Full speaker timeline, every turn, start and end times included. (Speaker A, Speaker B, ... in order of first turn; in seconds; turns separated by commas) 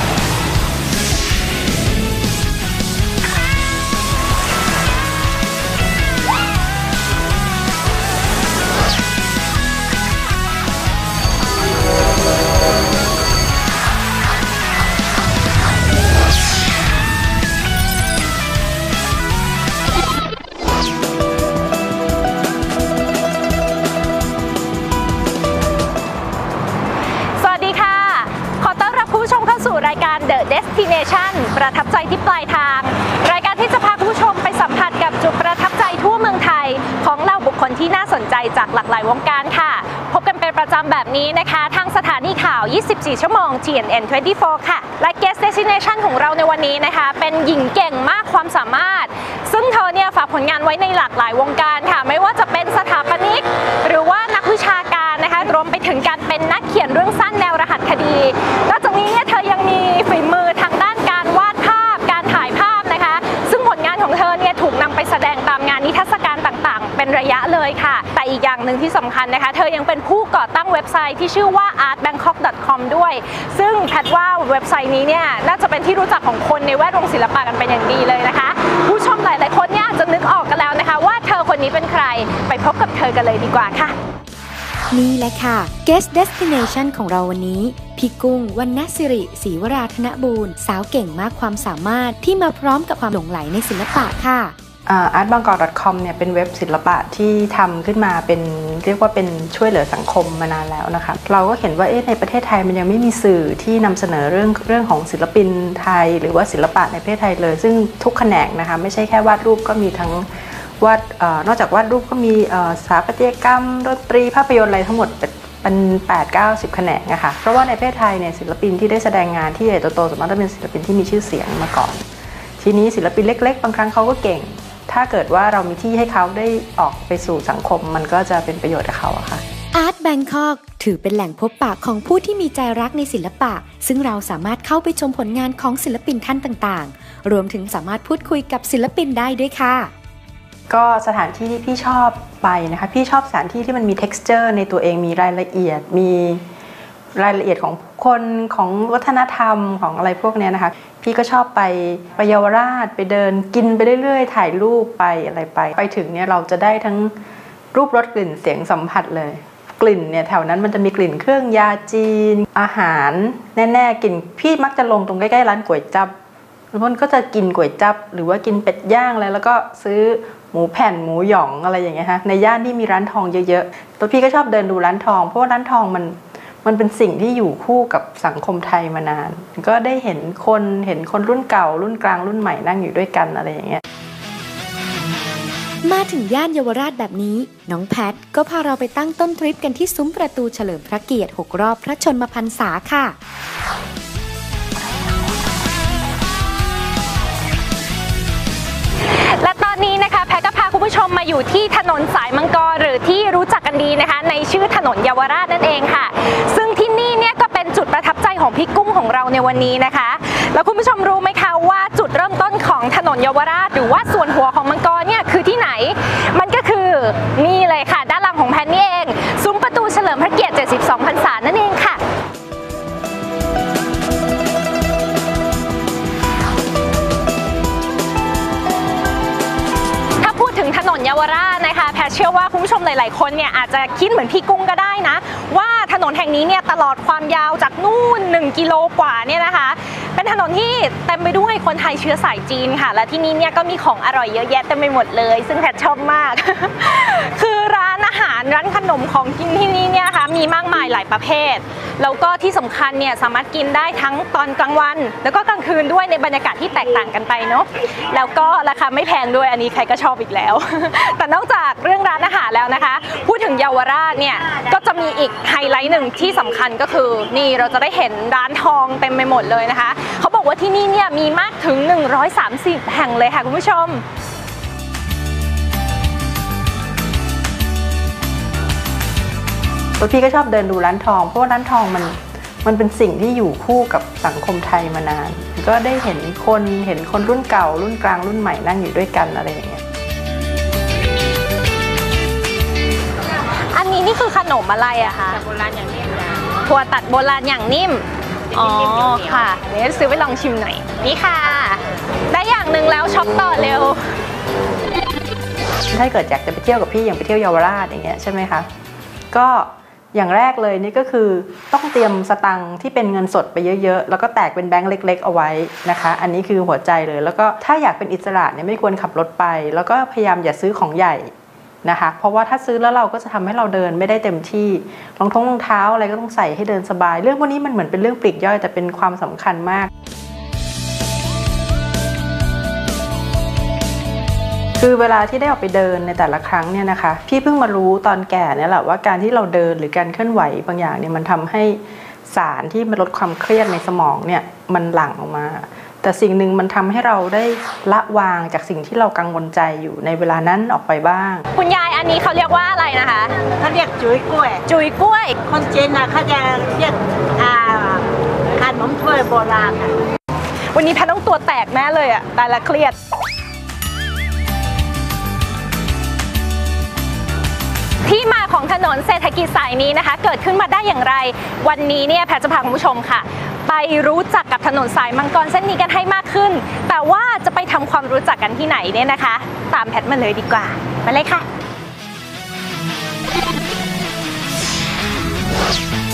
Speaker A: 27.4-83.9, Speaker B: 84.9-94.5, Speaker C: 94.9-122.0, Speaker C: 122.6-129.4, Speaker B: 129.7-139.9, Speaker C: 140.7-146.4, Speaker C: 147.2-157.1, Speaker C: 157.7-166.1, Speaker C: 166.7-183.8, Speaker B: 185.8-193.2, Speaker A: 199.0-222.0, Speaker A: 230.2-274.0, Speaker C: 280.0-289.8, Speaker A: 293.7-295.4, Speaker A: 296.6-304.1, Speaker C: 305.9-308.7, Speaker C: 309.3-321.3, Speaker C: 321.8-329.9, Speaker C: 334.8-351.4, Speaker A: 351.6-353.3, Speaker D: 353.6-354.6, Speaker A: 354.7-355.4, Speaker D: 355.4-358.0, Speaker D: 358.6-359.9, Speaker A: 360.7-362.9, Speaker A: 368.1-381.4